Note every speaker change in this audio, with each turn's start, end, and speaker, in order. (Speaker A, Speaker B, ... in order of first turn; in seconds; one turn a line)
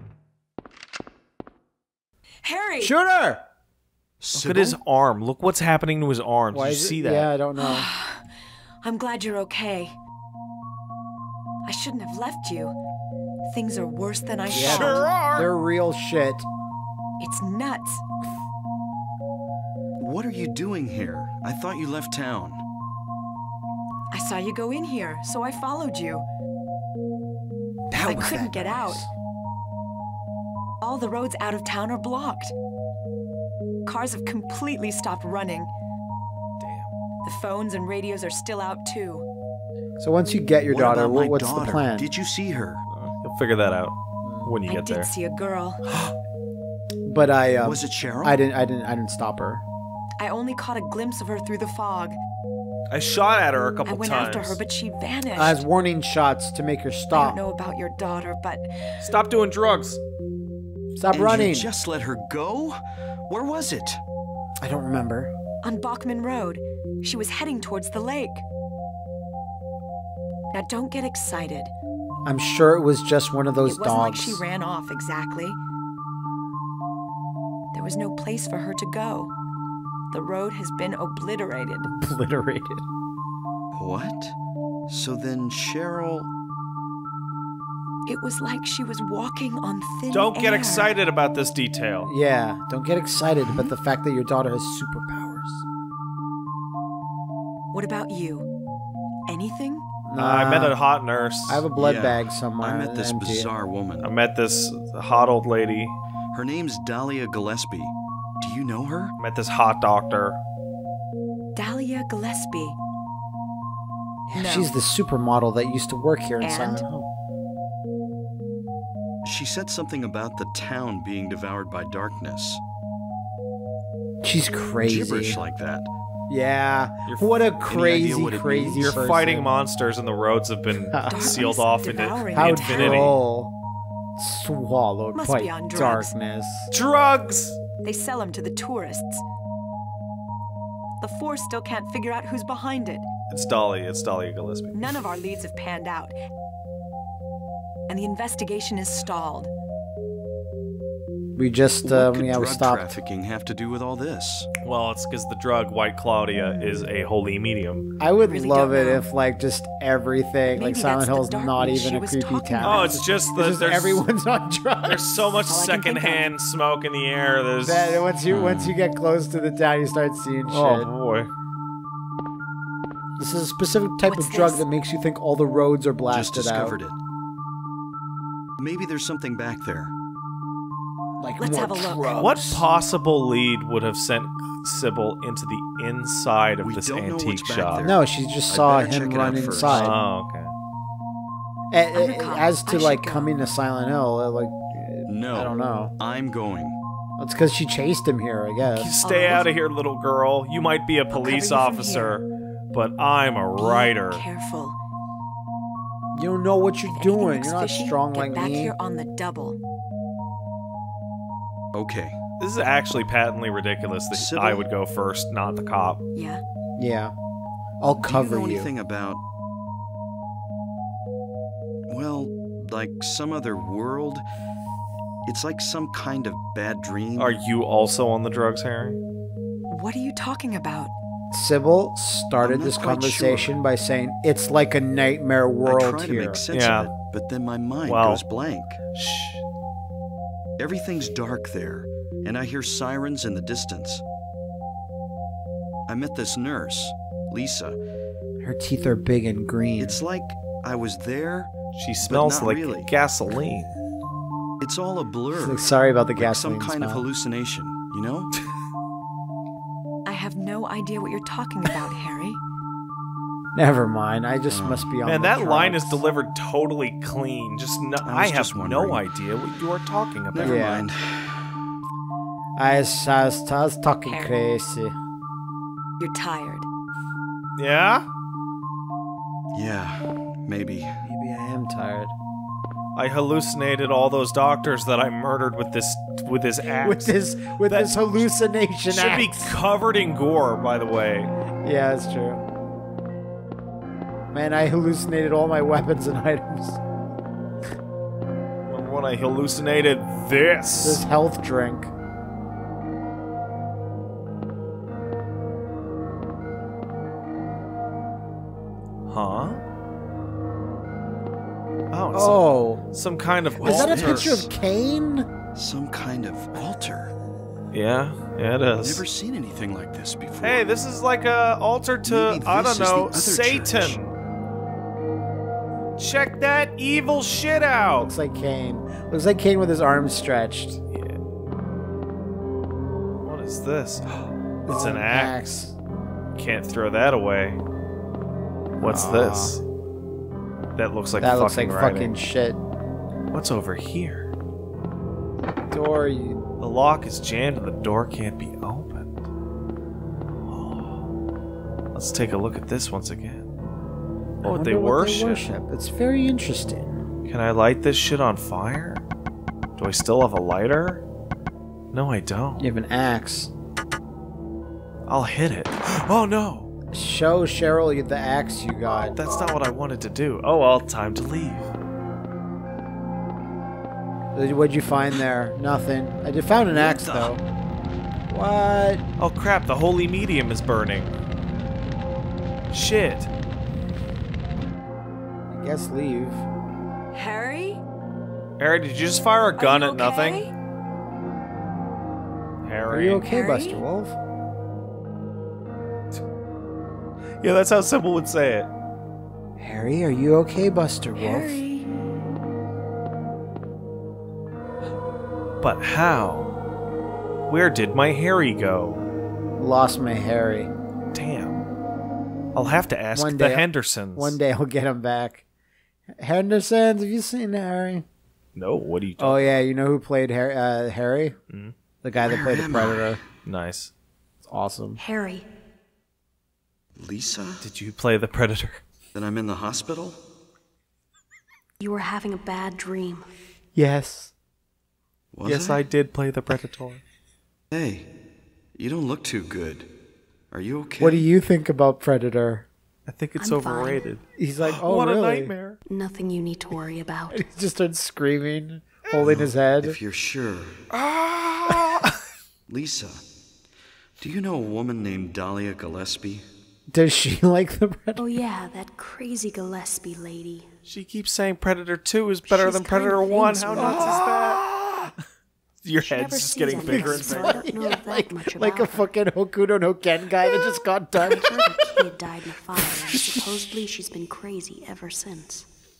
Speaker A: 2.4-2.9
Speaker B: 2.8-3.4
Speaker C: 4.2-4.8
Speaker D: 4.3-7.3
Speaker B: 6.5-7.9
Speaker A: 7.5-8.2
Speaker A: 8.8-10.0
Speaker A: 11.6-12.8
Speaker A: 13.4-15.1
Speaker B: 14.5-16.5
Speaker D: 14.5-15.5
Speaker A: 17.2-18.0
Speaker C: 20.0-22.6
Speaker A: 24.1-26.2
Speaker B: 27.9-29.1
Speaker A: 27.9-29.1
Speaker A: 30.8-32.5
Speaker A: 33.8-35.7
Speaker D: 36.6-36.9
Speaker A: 37.2-39.2
Speaker B: 40.0-42.1
Speaker C: 40.7-42.8
Speaker D: 42.9-45.1
Speaker B: 44.2-44.5
Speaker A: 44.7-45.8
Speaker B: 47.0-49.6
Speaker C: 47.6-48.4
Speaker A: 50.2-52.2
Speaker D: 52.9-54.6
Speaker A: 53.9-55.6
Speaker B: 55.3-57.4
Speaker A: 57.1-58.7
Speaker D: 59.0-60.0
Speaker B: 61.0-61.7
Speaker C: 61.1-64.0
Speaker B: 64.6-65.3
Speaker A: 65.6-68.5
Speaker A: 70.5-71.7
Speaker B: 72.2-74.4
Speaker A: 73.6-75.6
Speaker A: 77.7-79.3
Speaker A: 80.1-81.9
Speaker B: 81.8-82.8
Speaker C: 83.7-84.3
Speaker C: 84.9-86.3
Speaker A: 88.0-90.9
Speaker D: 90.1-92.1
Speaker B: 92.0-95.6
Speaker A: 97.7-98.5
Speaker A: 99.3-99.8
Speaker B: 100.0-100.8
Speaker D: 100.2-101.7
Speaker B: 101.5-103.5
Speaker C: 101.7-104.1
Speaker D: 104.0-105.9
Speaker C: 106.3-109.2
Speaker D: 109.2-110.4
Speaker A: 111.5-112.8
Speaker B: 114.3-117.1
Speaker A: 114.3-114.8
Speaker A: 116.4-116.8
Speaker C: 119.2-122.6
Speaker B: 124.2-125.4
Speaker C: 124.8-125.9
Speaker B: 126.3-129.5
Speaker D: 127.0-127.6
Speaker C: 127.7-129.0
Speaker D: 128.7-133.2
Speaker B: 130.9-131.4
Speaker A: 131.1-133.1
Speaker B: 132.3-133.5
Speaker B: 134.2-136.7
Speaker A: 135.1-136.1
Speaker D: 136.7-137.6
Speaker A: 137.8-139.2
Speaker A: 141.0-143.1
Speaker D: 143.3-144.9
Speaker A: 144.7-146.2
Speaker A: 147.9-149.5
Speaker B: 151.3-153.0
Speaker C: 151.8-154.5
Speaker D: 154.6-157.8
Speaker B: 158.0-165.3
Speaker A: 158.2-159.1
Speaker A: 160.5-163.0
Speaker D: 162.6-164.0
Speaker D: 164.8-168.1
Speaker A: 165.5-166.3
Speaker B: 167.6-170.9
Speaker C: 168.3-168.8
Speaker D: 170.5-171.3
Speaker B: 173.2-176.8
Speaker A: 174.0-174.7
Speaker C: 176.1-177.0
Speaker C: 178.6-179.9
Speaker B: 181.2-182.7
Speaker A: 181.4-182.2
Speaker D: 182.2-187.9
Speaker C: 186.6-190.0
Speaker B: 187.8-190.0
Speaker D: 189.6-190.5
Speaker B: 191.7-195.9
Speaker A: 191.9-193.4
Speaker C: 195.1-196.8
Speaker B: 197.2-198.9
Speaker D: 198.6-204.2
Speaker A: 199.0-199.5
Speaker A: 201.1-202.2
Speaker A: 203.6-204.8
Speaker B: 206.1-208.7
Speaker A: 206.8-209.6
Speaker C: 211.7-212.2
Speaker D: 212.4-216.0
Speaker C: 214.1-214.7
Speaker A: 216.1-216.4
Speaker B: 216.8-217.1
Speaker B: 217.8-218.7
Speaker C: 218.0-219.2
Speaker C: 221.9-224.2
Speaker C: 225.2-227.3
Speaker D: 227.2-229.0
Speaker A: 229.7-230.9
Speaker B: 231.3-236.4
Speaker C: 232.4-233.5
Speaker C: 235.6-238.8
Speaker D: 236.5-236.9
Speaker D: 237.8-238.2
Speaker D: 238.9-239.4
Speaker C: 240.6-244.0
Speaker C: 245.9-247.8
Speaker B: 248.4-250.0
Speaker C: 249.8-252.9
Speaker D: 251.7-253.7
Speaker C: 254.6-258.3
Speaker B: 255.3-257.1
Speaker A: 260.0-262.4
Speaker B: 263.5-266.0
Speaker C: 264.5-264.9
Speaker D: 265.0-270.7
Speaker C: 268.0-269.0
Speaker C: 270.3-271.5
Speaker B: 270.4-270.9
Speaker B: 272.6-274.9
Speaker A: 274.0-274.4
Speaker A: 276.0-276.7
Speaker D: 277.6-278.1
Speaker C: 279.5-280.9
Speaker B: 281.0-282.1
Speaker D: 282.9-287.1
Speaker B: 286.8-289.5
Speaker D: 287.7-288.2
Speaker D: 288.9-291.3
Speaker B: 291.6-292.4
Speaker B: 294.3-296.8
Speaker D: 298.7-301.0
Speaker B: 300.8-301.9
Speaker D: 309.1-309.6
Speaker D: 311.9-314.5
Speaker B: 312.1-312.8
Speaker C: 313.6-314.5
Speaker B: 313.6-315.3
Speaker C: 315.5-317.1
Speaker D: 317.7-319.0
Speaker C: 318.8-320.7
Speaker D: 320.4-324.1
Speaker C: 322.0-324.0
Speaker D: 326.0-328.1
Speaker B: 328.0-330.8
Speaker D: 330.9-331.2
Speaker D: 333.2-334.0
Speaker B: 334.6-335.7
Speaker D: 334.7-335.4
Speaker D: 336.4-337.6
Speaker B: 338.7-339.6
Speaker D: 338.8-339.6
Speaker D: 340.8-342.1
Speaker B: 341.2-342.6
Speaker D: 343.3-344.3
Speaker B: 345.7-346.4
Speaker D: 346.6-349.1
Speaker D: 350.5-351.0
Speaker D: 351.9-353.5
Speaker B: 354.4-357.0
Speaker D: 354.4-355.5
Speaker D: 357.3-359.0
Speaker D: 359.8-361.0
Speaker D: 361.9-362.6
Speaker B: 362.6-363.5
Speaker D: 365.1-366.7
Speaker B: 366.9-369.1
Speaker D: 369.1-371.7
Speaker B: 374.3-377.4
Speaker C: 376.7-377.4
Speaker B: 378.3-379.0
Speaker D: 379.2-381.1
Speaker D: 382.7-383.3
Speaker B: 385.5-386.4
Speaker A: 387.1-387.8
Speaker D: 388.6-390.4
Speaker A: 389.6-390.5
Speaker D: 392.6-393.3
Speaker B: 392.9-394.1
Speaker A: 393.2-393.8
Speaker D: 397.4-398.7
Speaker B: 399.6-401.6
Speaker A: 401.1-401.9
Speaker D: 405.6-406.5
Speaker D: 407.5-409.0
Speaker B: 409.6-410.7
Speaker D: 411.1-411.6
Speaker D: 412.5-414.4
Speaker B: 413.1-415.4
Speaker B: 416.1-418.0
Speaker D: 418.6-419.6
Speaker B: 419.2-421.4
Speaker B: 422.0-423.2
Speaker C: 422.2-423.1
Speaker D: 423.4-423.9
Speaker B: 424.4-425.0
Speaker E: 425.0-425.4
Speaker C: 426.9-427.6
Speaker D: 427.6-428.8
Speaker C: 429.1-430.2
Speaker E: 431.8-433.3
Speaker B: 433.7-434.3
Speaker C: 435.3-435.8
Speaker D: 435.4-437.0
Speaker C: 437.7-438.1
Speaker C: 438.8-439.9
Speaker C: 440.5-441.2
Speaker B: 441.0-442.7
Speaker D: 443.1-445.8
Speaker E: 443.4-444.1
Speaker B: 444.4-445.5
Speaker E: 445.9-447.5
Speaker B: 447.3-450.0
Speaker C: 449.2-450.8
Speaker D: 451.0-452.1
Speaker C: 452.7-453.2
Speaker C: 454.2-456.4
Speaker B: 456.9-458.2
Speaker E: 458.2-460.7
Speaker D: 460.9-464.6
Speaker E: 462.5-464.3
Speaker B: 463.7-465.1
Speaker D: 465.8-467.6
Speaker E: 466.0-469.1
Speaker B: 466.8-472.1
Speaker E: 471.2-475.7
Speaker B: 472.8-473.6